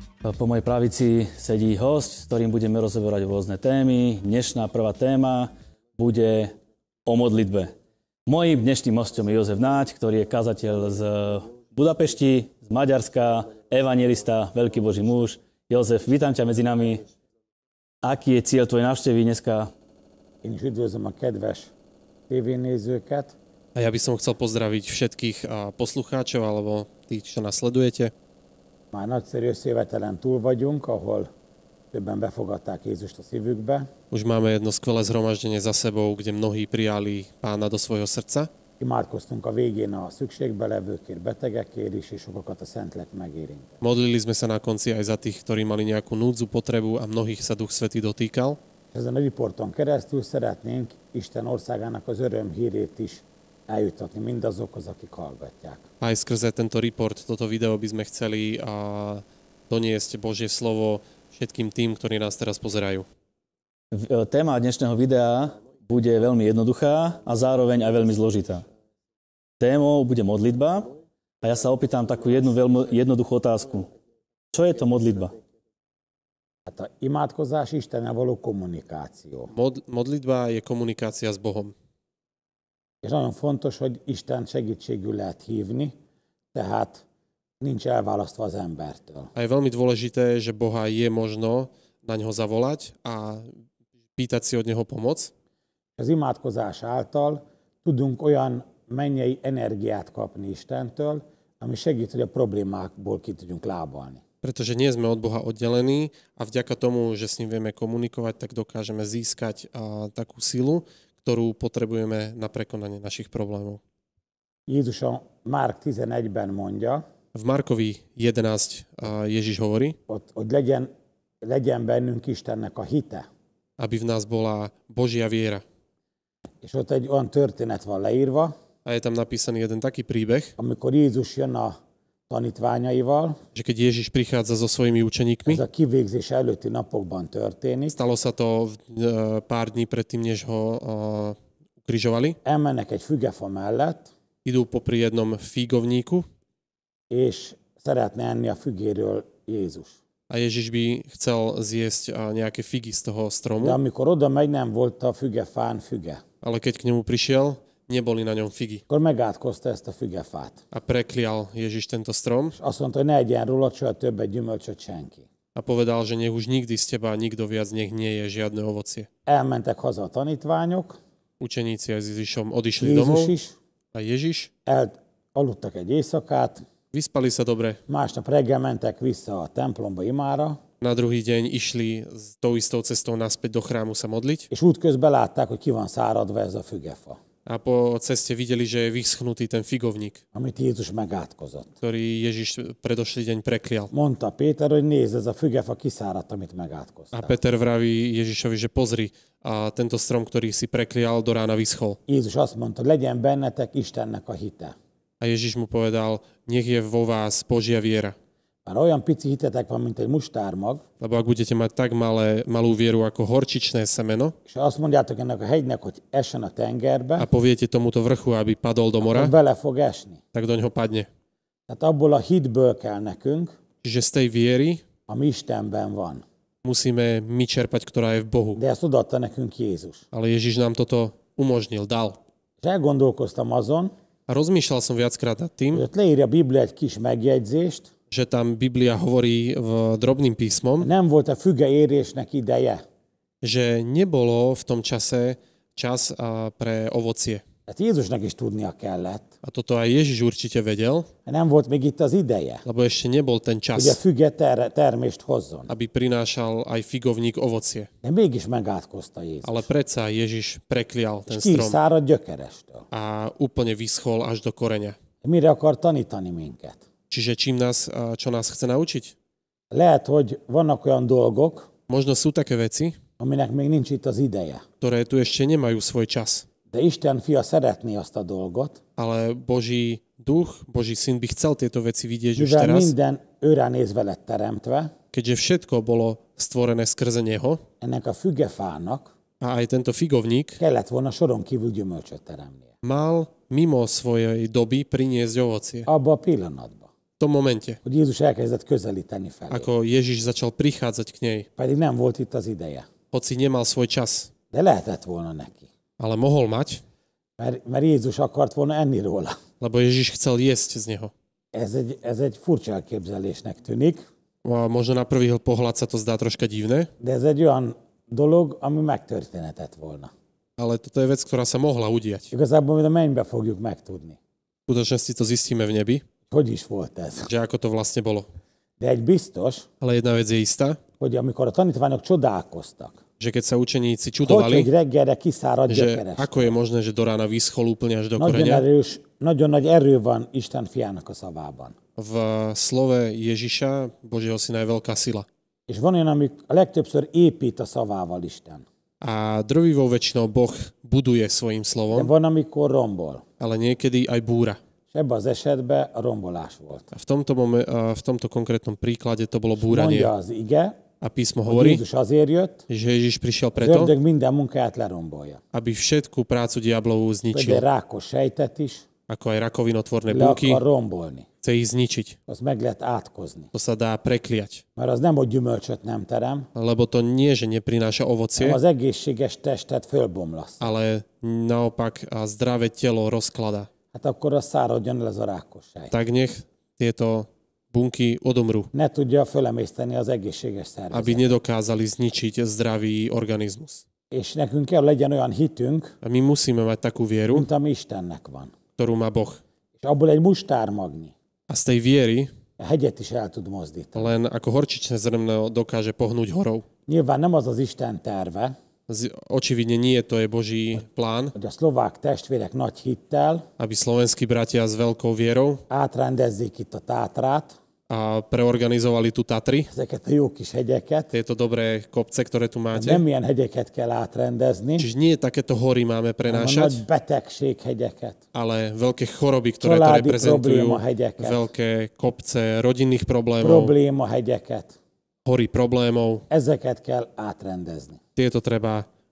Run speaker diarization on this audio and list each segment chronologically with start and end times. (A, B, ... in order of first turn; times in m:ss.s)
0:00.2-0:07.7 A
0:08.2-0:17.0 A
0:18.0-0:19.7 A
0:20.4-0:21.7 B
0:22.3-0:23.4 B
0:23.7-0:28.1 C
0:28.9-0:31.3 B
0:31.9-0:33.9 B
0:34.1-0:38.5 C
0:38.8-0:43.8 B
0:43.8-0:48.6 C
0:48.9-0:55.8 B
0:56.0-1:03.0 C
1:03.9-1:08.6 A
1:09.6-1:13.9 A
1:14.5-1:15.3 A
1:16.7-1:19.5 B
1:19.5-1:21.7 C
1:23.0-1:25.9 B
1:26.5-1:27.0 B
1:27.6-1:29.3 B
1:29.3-1:33.5 C
1:34.2-1:35.3 C
1:36.0-1:44.2 B
1:44.4-1:53.8 C
1:54.7-1:57.0 B
1:57.3-2:00.0 C
2:00.1-2:00.9 B
2:01.4-2:03.2 B
2:03.8-2:05.6 C
2:06.6-2:08.5 B
2:08.8-2:10.5 C
2:10.6-2:11.8 B
2:12.3-2:13.4 B
2:13.6-2:15.6 C
2:15.5-2:18.0 B
2:17.9-2:22.4 C
2:22.4-2:24.1 B
2:24.4-2:26.2 C
2:27.1-2:30.0 B
2:30.3-2:33.8 C
2:33.6-2:36.2 B
2:36.4-2:38.8 C
2:38.9-2:40.6 B
2:40.7-2:42.6 C
2:42.5-2:45.2 B
2:45.5-2:49.1 C
2:49.2-2:51.0 B
2:51.4-2:53.3 C
2:52.8-2:53.6 B
2:53.9-2:54.5 C
2:54.6-2:56.6 B
2:56.9-2:57.8 C
2:57.9-3:00.6 B
3:00.8-3:04.5 C
3:04.5-3:07.2 B
3:07.4-3:10.2 C
3:10.3-3:11.7 B
3:11.8-3:13.9 C
3:13.9-3:17.4 B
3:17.1-3:22.0 C
3:22.1-3:24.7 B
3:25.2-3:28.1 C
3:28.6-3:30.8 B
3:31.0-3:34.3 C
3:34.5-3:37.3 B
3:37.2-3:39.3 C
3:39.0-3:40.2 B
3:40.3-3:41.1 C
3:41.7-3:43.5 B
3:43.8-3:44.8 C
3:45.1-3:46.2 B
3:46.6-3:48.6 C
3:48.5-3:50.0 B
3:50.1-3:52.2 C
3:52.6-3:53.9 B
3:54.3-3:55.8 C
3:55.7-3:57.9 B
3:58.1-4:00.9 C
4:00.8-4:02.8 B
4:03.4-4:07.4 C
4:07.7-4:09.3 B
4:09.4-4:11.1 C
4:11.2-4:12.6 B
4:12.6-4:14.0 C
4:13.7-4:15.7 B
4:15.7-4:17.9 C
4:18.0-4:19.7 B
4:19.4-4:21.8 C
4:21.3-4:22.8 B
4:22.9-4:25.0 C
4:25.2-4:26.8 B
4:27.1-4:29.1 C
4:29.7-4:31.7 B
4:31.9-4:33.0 C
4:33.2-4:34.6 B
4:34.8-4:36.4 C
4:36.7-4:38.8 B
4:39.0-4:42.9 C
4:42.3-4:44.9 B
4:45.1-4:47.6 C
4:47.8-4:49.1 B
4:49.4-4:50.6 C
4:50.6-4:52.7 B
4:52.8-4:55.9 C
4:55.9-4:56.9 B
4:57.2-4:57.8 C
4:57.8-4:59.7 B
4:59.5-5:01.5 C
5:01.6-5:02.9 B
5:03.1-5:04.3 C
5:04.5-5:05.7 B
5:06.0-5:06.8 C
5:07.4-5:09.4 B
5:09.6-5:11.1 C
5:11.5-5:14.0 B
5:14.4-5:16.9 C
5:17.0-5:20.1 B
5:20.6-5:22.3 C
5:22.3-5:24.2 B
5:24.7-5:26.0 C
5:26.3-5:27.3 B
5:27.3-5:28.3 C
5:28.8-5:29.7 B
5:29.8-5:30.8 C
5:31.0-5:33.0 B
5:33.2-5:34.7 C
5:34.2-5:36.5 B
5:35.7-5:38.6 C
5:38.2-5:41.7 B
5:42.0-5:45.2 C
5:45.7-5:48.6 B
5:49.0-5:52.1 C
5:51.9-5:53.2 B
5:53.4-5:54.6 C
5:54.9-5:56.9 B
5:56.9-6:00.1 C
5:59.6-6:00.8 B
6:01.0-6:01.8 C
6:01.5-6:02.6 B
6:02.7-6:03.9 C
6:03.6-6:05.4 B
6:05.5-6:07.6 C
6:07.3-6:08.8 B
6:09.1-6:10.6 C
6:10.1-6:11.2 B
6:11.4-6:12.2 C
6:12.3-6:13.5 B
6:13.5-6:14.6 C
6:14.8-6:16.5 B
6:16.5-6:18.6 C
6:18.4-6:20.7 B
6:20.6-6:23.7 C
6:23.9-6:25.9 B
6:25.9-6:28.7 C
6:28.7-6:31.2 B
6:30.9-6:33.8 C
6:34.1-6:35.9 B
6:36.0-6:37.5 C
6:37.3-6:38.5 B
6:38.8-6:39.4 C
6:39.8-6:41.1 B
6:41.5-6:42.3 C
6:42.6-6:44.2 B
6:44.0-6:46.6 C
6:46.9-6:48.5 B
6:48.9-6:51.3 C
6:51.3-6:53.4 B
6:53.6-6:55.6 C
6:55.7-6:57.6 B
6:57.9-6:59.7 C
6:59.7-7:01.1 B
7:01.1-7:03.0 C
7:02.7-7:04.9 B
7:04.8-7:06.8 C
7:06.3-7:08.2 B
7:08.3-7:13.7 C
7:09.6-7:11.4 B
7:13.4-7:14.8 B
7:15.2-7:16.2 C
7:16.3-7:18.0 B
7:18.2-7:18.8 C